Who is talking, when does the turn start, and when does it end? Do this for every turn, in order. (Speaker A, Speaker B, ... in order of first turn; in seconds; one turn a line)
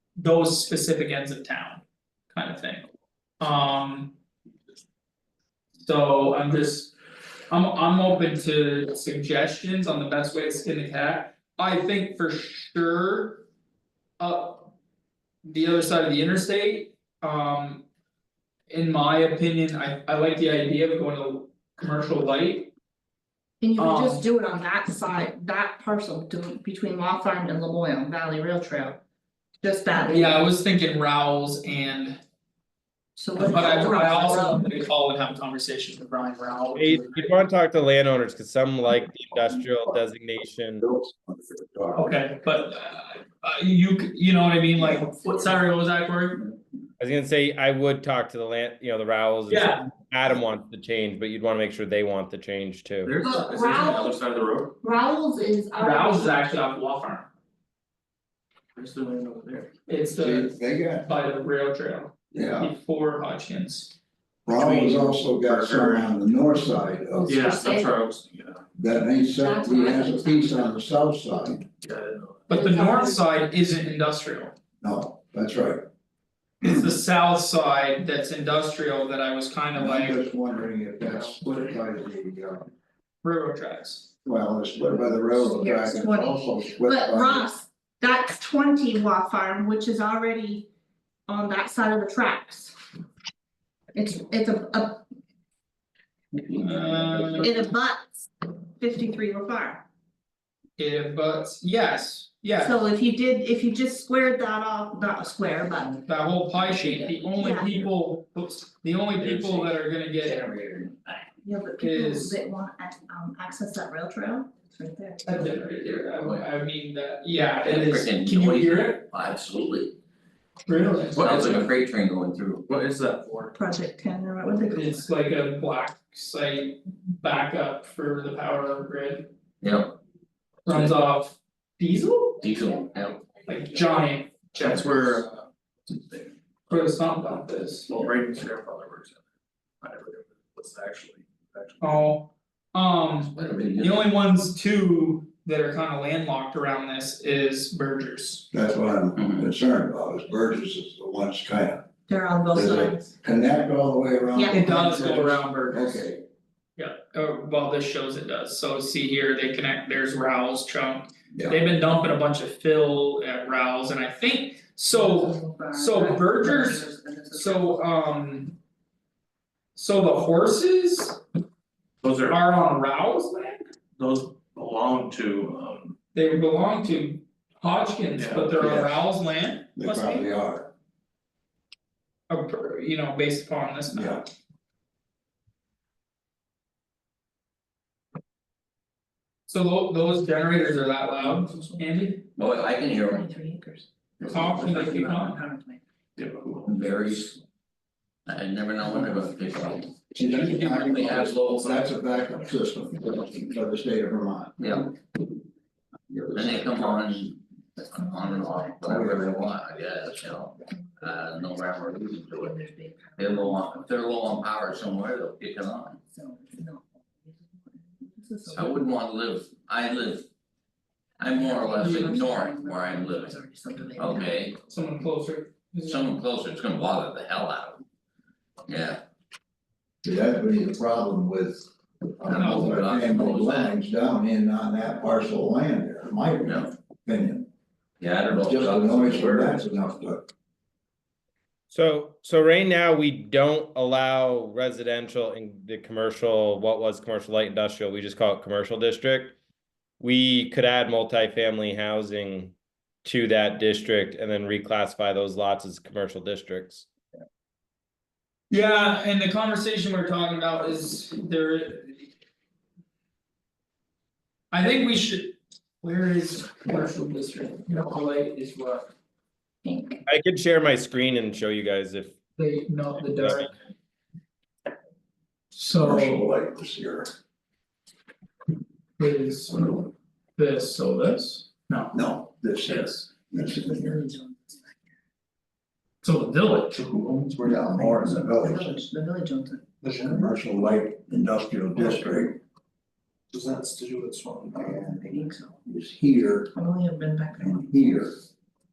Speaker A: 0.2-2.8
Speaker A: 3.4-4.1
Speaker A: 5.8-6.9
Speaker A: 7.5-13.4
Speaker A: 14.2-14.7
Speaker A: 15.4-17.8
Speaker A: 18.7-22.7
Speaker B: 23.6-29.0
Speaker A: 23.8-24.2
Speaker B: 29.6-30.4
Speaker A: 30.0-32.2
Speaker B: 33.1-34.6
Speaker A: 33.4-37.3
Speaker C: 36.8-40.8
Speaker D: 40.8-42.1
Speaker A: 41.9-46.5
Speaker C: 47.0-53.2
Speaker A: 49.5-49.8
Speaker E: 53.0-54.8
Speaker B: 53.2-54.2
Speaker B: 54.8-56.5
Speaker A: 55.8-57.3
Speaker E: 58.8-59.7
Speaker A: 59.9-63.9
Speaker D: 60.1-61.1
Speaker D: 62.3-62.7
Speaker D: 64.5-67.5
Speaker E: 64.5-66.1
Speaker B: 67.2-68.0
Speaker E: 67.2-68.6
Speaker D: 68.8-71.7
Speaker B: 69.4-70.7
Speaker E: 71.8-72.6
Speaker A: 72.5-74.5
Speaker B: 72.5-73.1
Speaker D: 74.8-75.8
Speaker A: 76.6-80.2
Speaker D: 79.7-82.7
Speaker A: 83.2-84.1
Speaker D: 84.2-87.5
Speaker B: 85.3-90.7
Speaker B: 91.3-92.8
Speaker B: 93.9-95.0
Speaker A: 96.5-97.6
Speaker B: 97.4-99.8
Speaker A: 100.8-102.8
Speaker B: 102.6-106.0
Speaker A: 105.9-110.4
Speaker B: 106.6-107.9
Speaker F: 110.5-111.0
Speaker B: 111.4-115.6
Speaker A: 111.8-112.4
Speaker A: 115.2-119.0
Speaker F: 116.2-116.5
Speaker F: 117.6-119.9
Speaker A: 120.7-121.7
Speaker F: 121.2-122.6
Speaker E: 121.2-121.4
Speaker E: 122.7-123.5
Speaker B: 123.5-125.0
Speaker A: 124.7-129.3
Speaker F: 129.6-129.9
Speaker A: 130.7-132.4
Speaker F: 132.4-133.2
Speaker A: 133.4-135.2
Speaker E: 134.5-136.3
Speaker A: 136.7-138.0
Speaker E: 137.9-139.2
Speaker E: 139.8-142.0
Speaker A: 141.8-148.5
Speaker F: 143.3-144.1
Speaker D: 148.5-151.8
Speaker B: 152.1-153.1
Speaker D: 152.5-156.2
Speaker B: 154.3-154.6
Speaker A: 154.5-156.0
Speaker A: 156.8-168.6
Speaker D: 161.3-161.6
Speaker B: 164.9-167.8
Speaker A: 169.7-171.2
Speaker E: 172.0-172.4
Speaker A: 172.2-173.6
Speaker E: 174.0-175.9
Speaker A: 176.1-180.3
Speaker E: 178.2-178.7
Speaker D: 178.6-178.9
Speaker D: 179.8-180.7
Speaker A: 182.3-184.3
Speaker D: 183.9-184.2
Speaker A: 189.5-192.2
Speaker F: 192.3-193.2
Speaker B: 192.8-195.8
Speaker A: 194.3-195.4
Speaker E: 196.2-196.8
Speaker F: 196.6-197.4
Speaker F: 198.2-201.9
Speaker D: 200.1-204.9
Speaker F: 204.6-204.9
Speaker D: 206.1-207.3
Speaker F: 206.3-212.6
Speaker B: 207.8-208.8
Speaker D: 208.8-209.6
Speaker B: 210.7-211.6
Speaker B: 212.3-214.7
Speaker F: 213.2-216.0
Speaker B: 216.1-219.0
Speaker F: 218.5-220.2
Speaker F: 221.2-223.4
Speaker B: 221.3-224.5
Speaker A: 221.8-222.2
Speaker F: 223.9-224.6
Speaker A: 224.7-226.2
Speaker F: 225.8-227.8
Speaker F: 228.7-229.0
Speaker D: 230.0-237.5
Speaker F: 232.2-233.8
Speaker A: 232.3-232.8
Speaker F: 236.4-236.7
Speaker F: 238.0-239.6
Speaker D: 238.4-240.3
Speaker C: 241.7-249.4
Speaker C: 250.0-256.9
Speaker A: 258.5-262.1
Speaker A: 264.5-268.9
Speaker B: 269.6-270.0
Speaker C: 270.1-272.1
Speaker A: 272.4-273.5
Speaker C: 273.1-273.5
Speaker A: 275.5-276.3
Speaker D: 275.7-277.1
Speaker A: 279.0-281.9
Speaker D: 281.9-284.1
Speaker A: 282.7-283.0
Speaker B: 283.4-284.7
Speaker A: 286.0-286.8
Speaker E: 286.6-287.5
Speaker D: 287.4-288.8
Speaker B: 287.4-289.7
Speaker E: 289.8-290.2
Speaker D: 289.8-292.4
Speaker E: 293.3-294.8
Speaker D: 294.5-296.5
Speaker B: 295.0-295.6
Speaker B: 296.5-298.0
Speaker D: 297.4-298.2